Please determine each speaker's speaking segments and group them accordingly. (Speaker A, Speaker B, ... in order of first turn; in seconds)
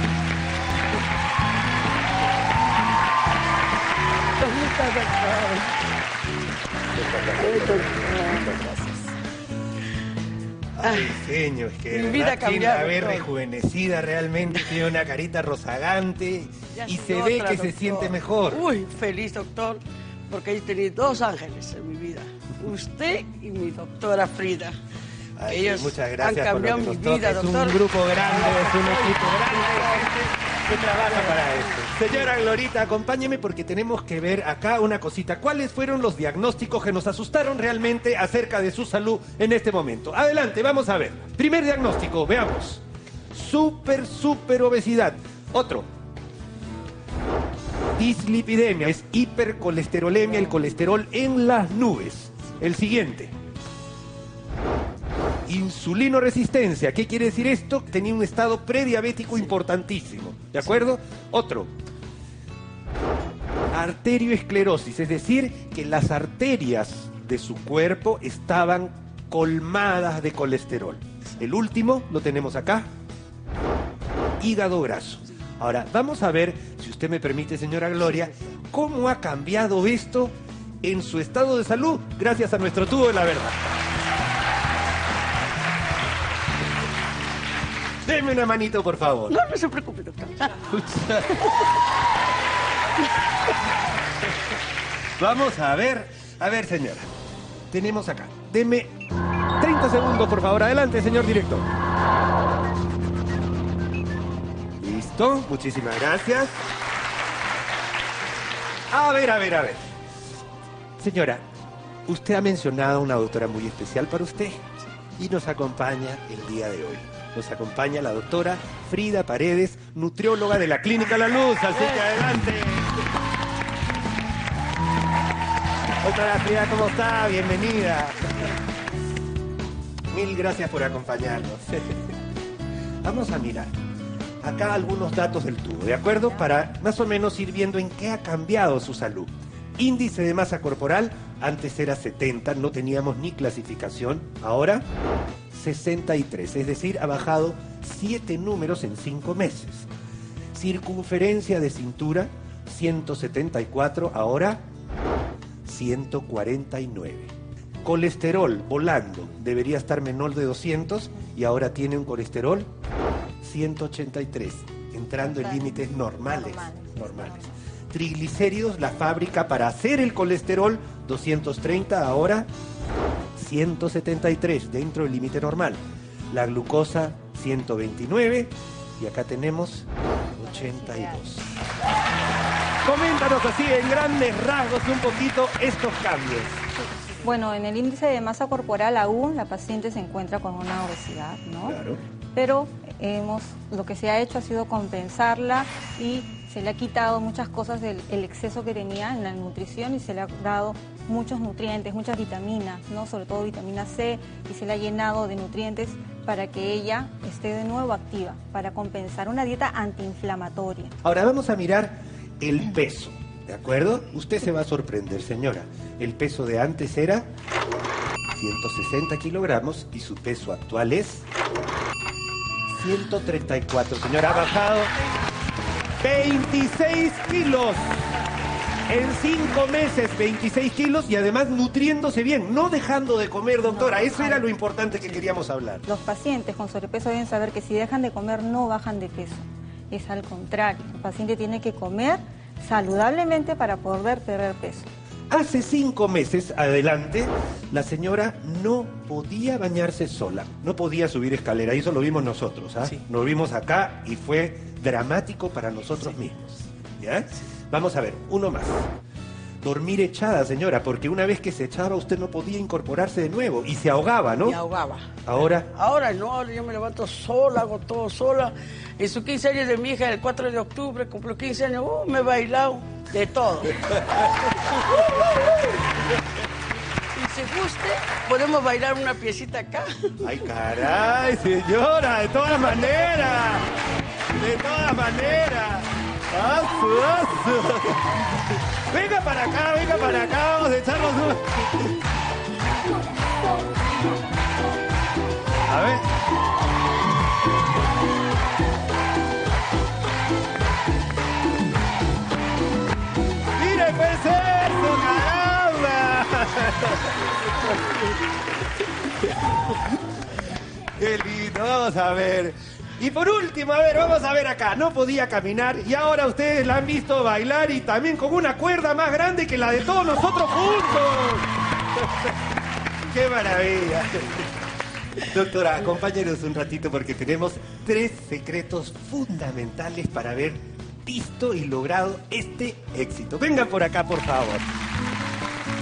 Speaker A: 4.4-5.8, 7.4-9.1, 10.8-11.2, 11.9-13.3, 16.7-24.8, 25.5-30.1, 31.0-31.6, 89.3-90.6, 264.4-265.1, 265.7-274.0, 274.6-275.7, 277.1-280.3
Speaker B: 6.9-8.0, 10.8-18.6, 25.4-45.9, 48.0-53.3, 55.5-61.7, 63.7-72.9, 74.4-83.6, 88.0-89.3, 90.7-91.5, 95.2-97.1, 97.7-98.9, 99.6-101.7, 104.8-106.5, 108.9-109.8, 111.0-111.4, 112.1-114.6, 115.2-123.0, 126.0-128.4, 130.1-131.9, 133.0-133.7, 134.4-144.8, 145.5-149.9, 150.5-154.6, 155.6-157.3, 157.8-162.7, 163.4-172.5, 173.3-175.8, 176.3-181.5, 182.8-186.6, 191.6-192.0, 211.0-217.3, 218.3-221.2, 222.7-224.9, 226.0-228.0, 228.9-235.8, 245.3-258.9, 259.6-264.6, 265.2-265.7, 280.2-283.7, 284.3-288.2, 288.9-291.8, 295.6-296.1, 303.6-307.1, 310.9-321.5, 323.1-324.5, 325.2-334.7
Speaker C: 187.1-191.8, 192.3-210.9, 233.6-234.4, 235.8-244.9